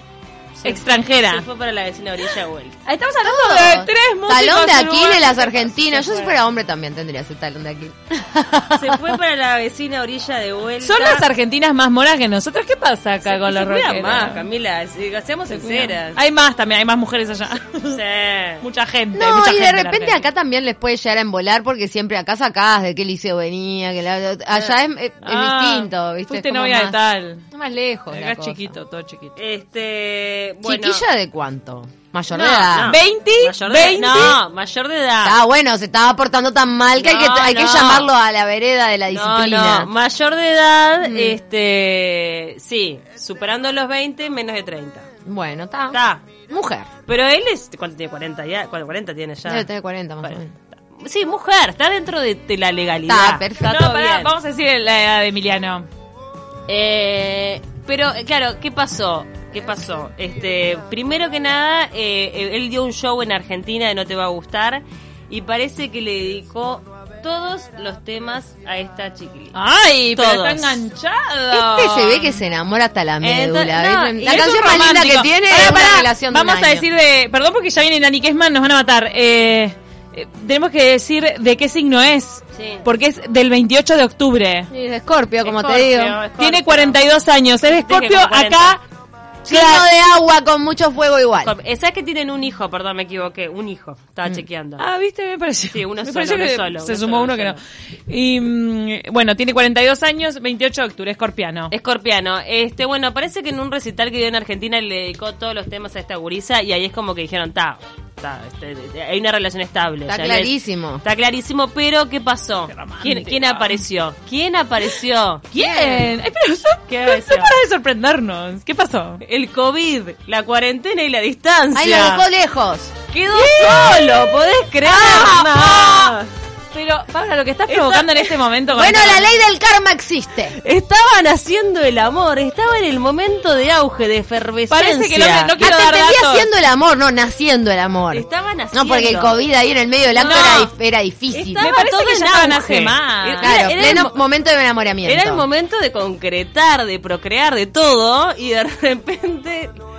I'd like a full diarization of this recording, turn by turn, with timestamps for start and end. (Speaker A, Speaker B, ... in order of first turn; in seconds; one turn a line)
Speaker A: 0.6-2.8
Speaker B: 0.6-1.5
Speaker B: 2.9-5.5
Speaker C: 3.2-9.2
Speaker A: 5.5-6.4
Speaker A: 8.8-11.3
Speaker B: 10.8-14.4
Speaker A: 13.2-16.2
Speaker B: 15.5-18.0
Speaker A: 17.8-18.6
Speaker B: 18.6-20.2
Speaker C: 19.1-27.0
Speaker B: 25.2-27.4
Speaker C: 27.5-28.7
Speaker B: 28.1-29.4
Speaker A: 29.4-31.1
Speaker C: 30.6-33.0
Speaker A: 32.3-35.4
Speaker B: 32.9-34.4
Speaker C: 35.2-39.9
Speaker A: 37.0-38.1
Speaker A: 39.1-45.1
Speaker C: 41.0-41.4
Speaker C: 45.2-46.9
Speaker A: 45.9-46.3
Speaker A: 47.1-49.7
Speaker C: 49.5-50.5
Speaker A: 50.2-54.3
Speaker C: 53.1-53.7
Speaker B: 53.6-55.9
Speaker A: 56.7-69.6
Speaker B: 69.5-72.4
Speaker A: 70.1-70.8
Speaker C: 71.5-76.9
Speaker A: 73.2-74.7
Speaker B: 74.2-84.7
Speaker A: 82.5-82.9
Speaker C: 84.7-86.2
Speaker A: 85.4-87.0
Speaker B: 86.3-88.8
Speaker A: 87.8-88.8
Speaker C: 89.5-91.5
Speaker B: 89.5-89.8
Speaker A: 91.4-94.8
Speaker B: 94.8-101.7
Speaker A: 95.7-97.6
Speaker A: 101.7-115.5
Speaker C: 110.1-111.0
Speaker B: 112.7-113.8
Speaker B: 115.5-119.2
Speaker C: 115.6-116.1
Speaker A: 116.9-117.5
Speaker A: 119.2-122.2
Speaker C: 121.7-123.0
Speaker A: 123.1-126.3
Speaker B: 123.3-126.1
Speaker C: 124.9-125.3
Speaker B: 126.7-129.3
Speaker A: 127.7-128.3
Speaker C: 128.7-130.6
Speaker A: 130.5-135.6
Speaker B: 134.7-136.5
Speaker C: 135.6-141.6
Speaker A: 138.1-139.4
Speaker A: 140.1-140.7
Speaker B: 140.2-140.7
Speaker A: 141.3-144.2
Speaker B: 141.6-144.0
Speaker C: 143.4-145.4
Speaker A: 145.1-149.8